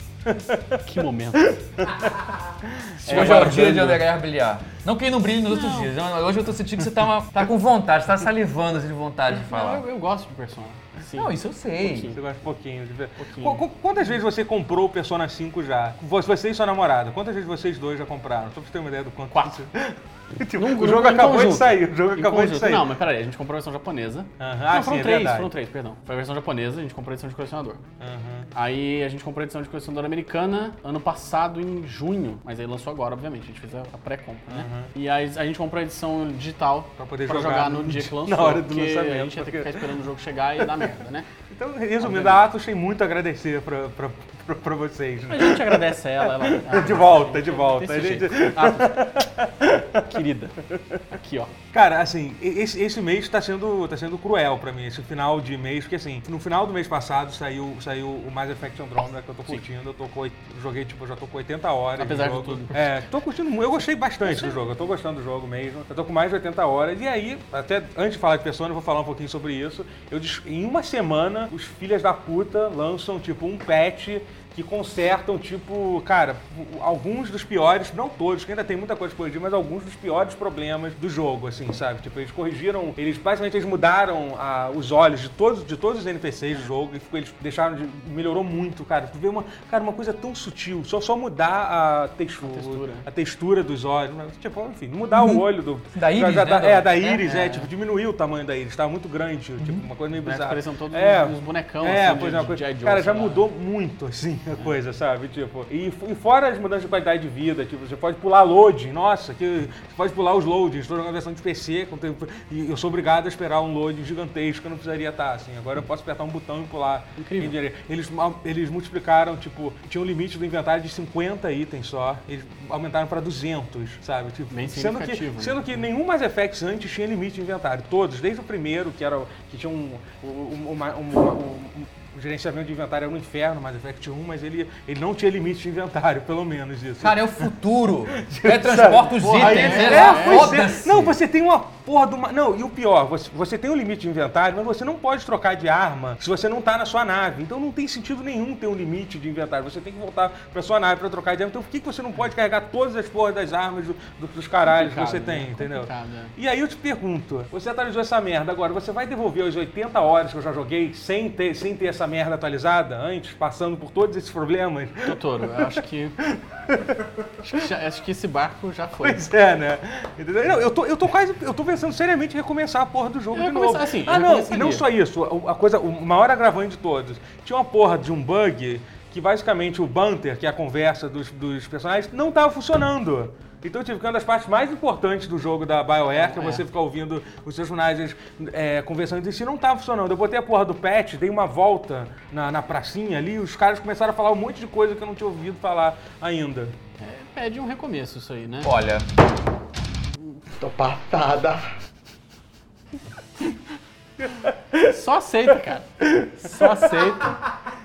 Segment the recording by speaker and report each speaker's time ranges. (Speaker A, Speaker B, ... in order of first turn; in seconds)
Speaker A: 0.3-0.8, 1.4-4.0, 12.1-23.0, 24.4-25.5, 28.0-28.5, 34.5-34.9, 37.0-40.0, 41.5-50.2, 50.7-51.0, 51.7-137.6, 138.1-167.6, 169.0-196.8, 204.3-204.9, 206.2-206.9
Speaker B: 0.8-1.6, 3.0-4.0, 5.5-5.9, 9.3-12.2, 13.2-13.6, 20.6-27.9, 28.5-41.3, 42.0-42.4, 45.3-49.1, 50.0-51.5, 62.0-62.8, 64.2-64.6, 92.4-93.1, 97.2-97.7, 100.2-103.4, 117.2-117.5, 124.5-125.8, 139.1-140.6, 154.6-156.3, 165.1-166.2, 167.4-169.3, 173.3-174.9, 186.1-186.7, 197.0-198.8, 204.8-207.4
Speaker C: 3.1-9.8, 11.2-12.1, 95.1-97.3, 137.0-141.2, 198.6-199.1